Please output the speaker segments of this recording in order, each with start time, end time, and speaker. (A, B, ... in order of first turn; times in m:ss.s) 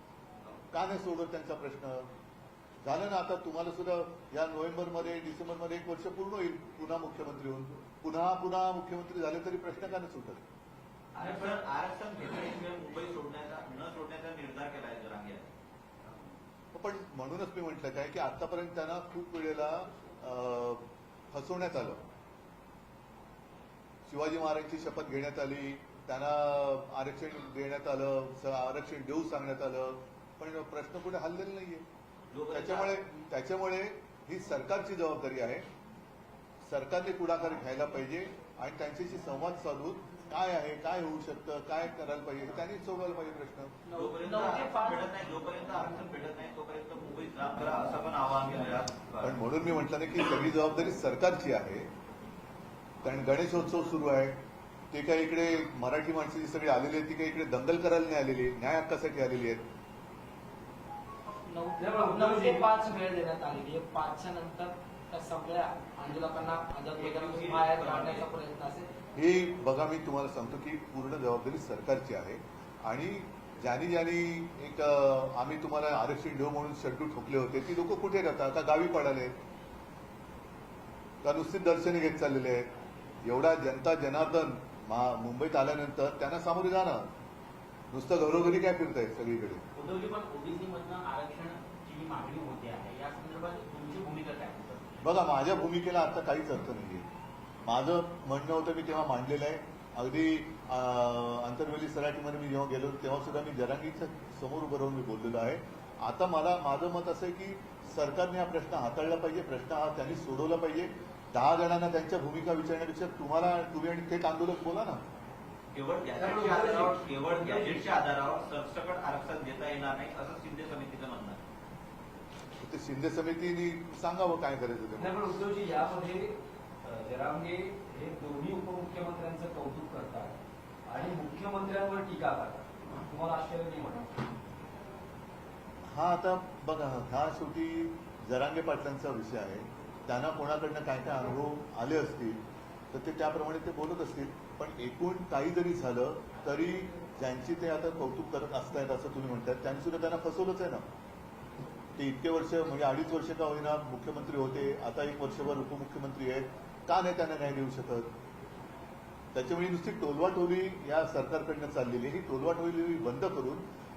0:00.7-0:02.1 A
0:02.8-0:10.4 A
0:11.1-0:15.5 B
0:11.2-0:11.6 C
0:16.7-0:22.0 A
0:24.1-0:31.8 A
0:32.3-0:33.0 B
0:32.5-0:35.6 A
0:36.6-0:43.8 A
0:43.8-0:45.2 D
0:43.9-0:49.4 B
0:49.2-0:51.9 A
0:53.0-0:54.4 A
0:54.9-0:59.6 A
1:01.5-1:08.9 D
1:01.8-1:02.7 C
1:06.9-1:08.3 B
1:09.2-1:19.3 A
1:21.2-1:22.7 A
1:23.2-1:27.1 A
1:27.9-1:29.6 A
1:29.7-1:35.0 E
1:35.0-1:37.0 A
1:37.6-1:55.0 A
1:55.7-2:01.4 B
1:56.2-1:57.8 C
2:02.6-2:05.2 A
2:05.0-2:10.3 C
2:10.8-2:14.1 C
2:15.9-2:22.4 A
2:22.9-2:30.8 A
2:32.0-2:38.1 A
2:39.3-2:43.6 A